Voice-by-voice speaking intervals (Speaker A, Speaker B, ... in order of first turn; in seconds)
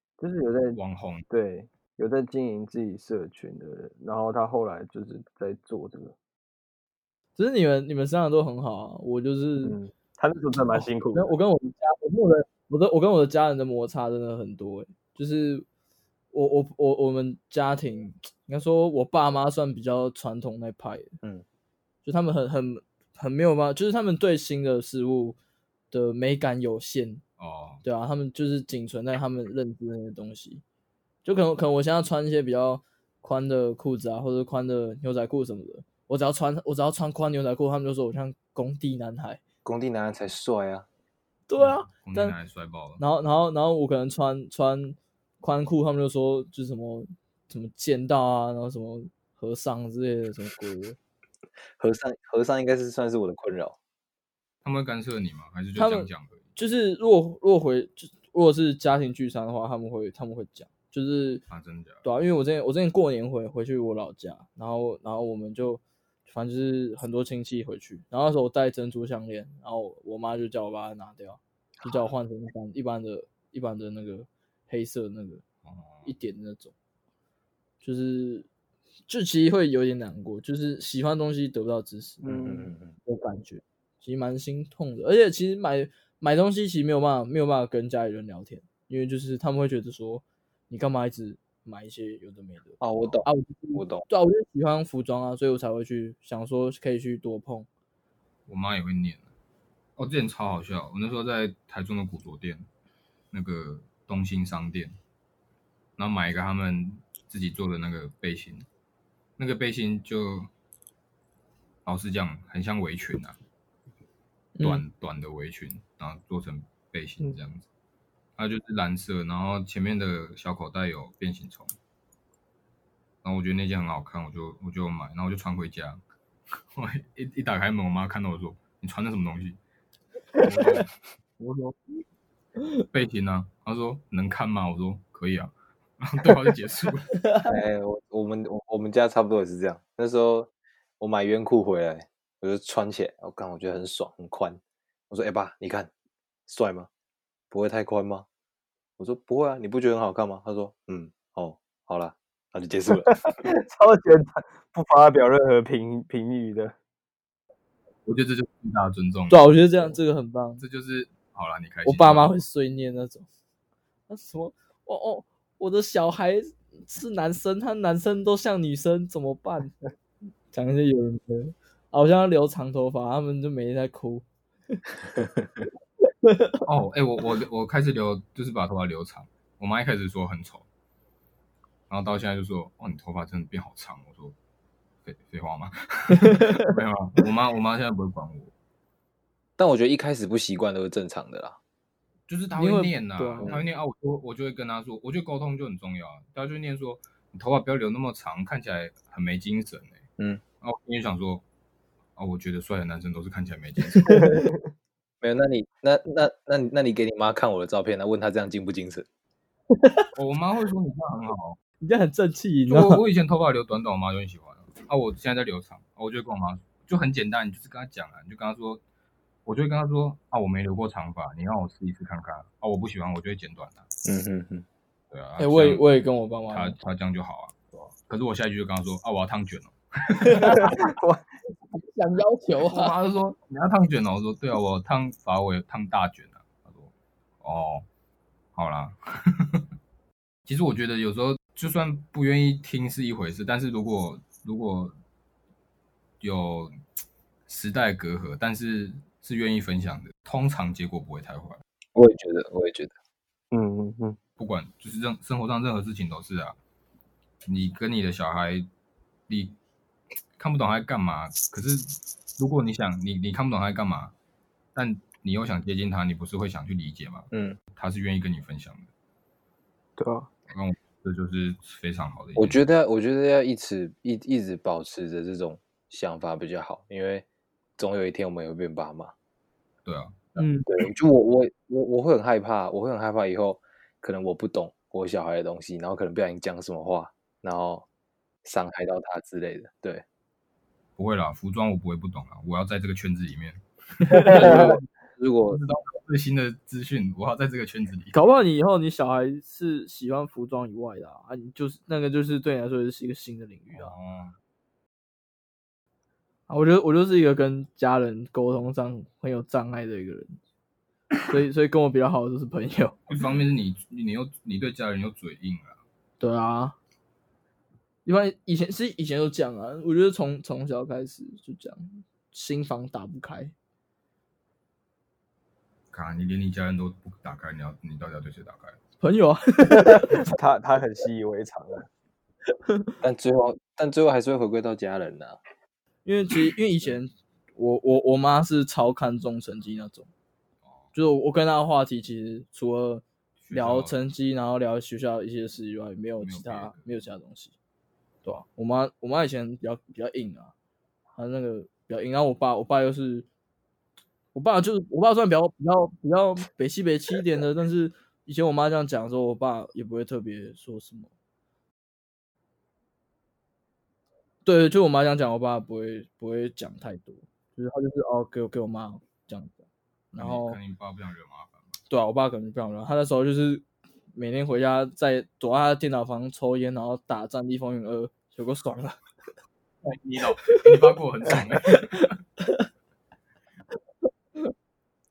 Speaker A: 0.2-6.1, 9.6-11.4, 82.2-82.7, 153.1-156.8, 230.4-231.2, 253.5-254.2, 270.0-270.3, 329.7-331.9
Speaker B: 0.7-1.3, 27.4-27.8, 41.6-43.0, 54.6-56.5, 61.5-62.1, 75.7-76.1, 98.5-99.2, 100.0-102.7, 103.3-105.0, 106.0-108.7, 109.4-110.5, 111.8-113.4, 114.6-117.7, 118.4-121.8, 123.2-126.0, 126.7-129.6, 130.4-130.9, 132.9-137.2, 158.1-159.5, 160.6-162.4, 176.7-180.7, 181.9-184.3, 185.1-188.5, 192.3-200.0, 200.6-201.4, 202.2-204.4, 210.1-211.6, 212.7-218.8, 219.4-223.9, 225.1-225.8, 226.5-227.6, 228.1-230.7, 232.7-237.9, 238.6-239.6, 240.5-244.9, 246.2-246.8, 247.5-251.6, 254.4-256.6, 257.4-258.7, 259.3-259.6, 260.4-264.1, 264.8-268.9, 270.5-272.6, 279.9-280.5, 291.0-294.8, 295.5-298.2, 303.7-304.4, 313.1-315.8, 325.9-328.8, 343.4-344.0, 346.2-346.8, 370.2-371.7, 379.8-382.1
Speaker C: 7.4-9.8, 10.7-15.7, 16.3-21.1, 22.1-25.4, 25.9-27.2, 27.8-30.6, 31.2-39.4, 41.5-42.4, 43.0-51.0, 55.8-61.5, 62.0-75.4, 76.0-76.7, 77.8-78.5, 79.1-82.5, 83.1-97.7, 114.5-114.8, 137.2-137.5, 159.3-160.6, 161.9-163.3, 164.1-169.8, 170.5-174.8, 176.2-176.6, 186.3-186.6, 192.5-193.6, 204.1-204.4, 209.8-210.1, 211.8-213.0, 225.4-226.8, 230.2-230.8, 231.7-232.9, 280.4-280.7, 298.1-303.9, 306.5-310.4, 311.3-313.2, 316.2-316.8, 318.1-323.5, 329.0-330.3, 332.5-333.0, 336.1-340.1, 340.9-347.5, 348.2-350.5, 351.1-353.3, 354.3-361.1, 364.4-370.6, 371.9-379.0, 380.4-382.7
Speaker D: 39.6-40.9, 51.8-53.8, 82.3-82.9, 92.8-94.1, 137.4-145.9, 146.5-146.9, 147.5-148.3, 149.0-153.5, 189.6-191.6, 205.2-209.1, 224.1-224.7, 251.9-252.9, 267.3-267.6, 272.4-277.3, 277.8-279.1, 280.7-287.9, 288.4-290.0, 294.2-295.6, 333.0-335.4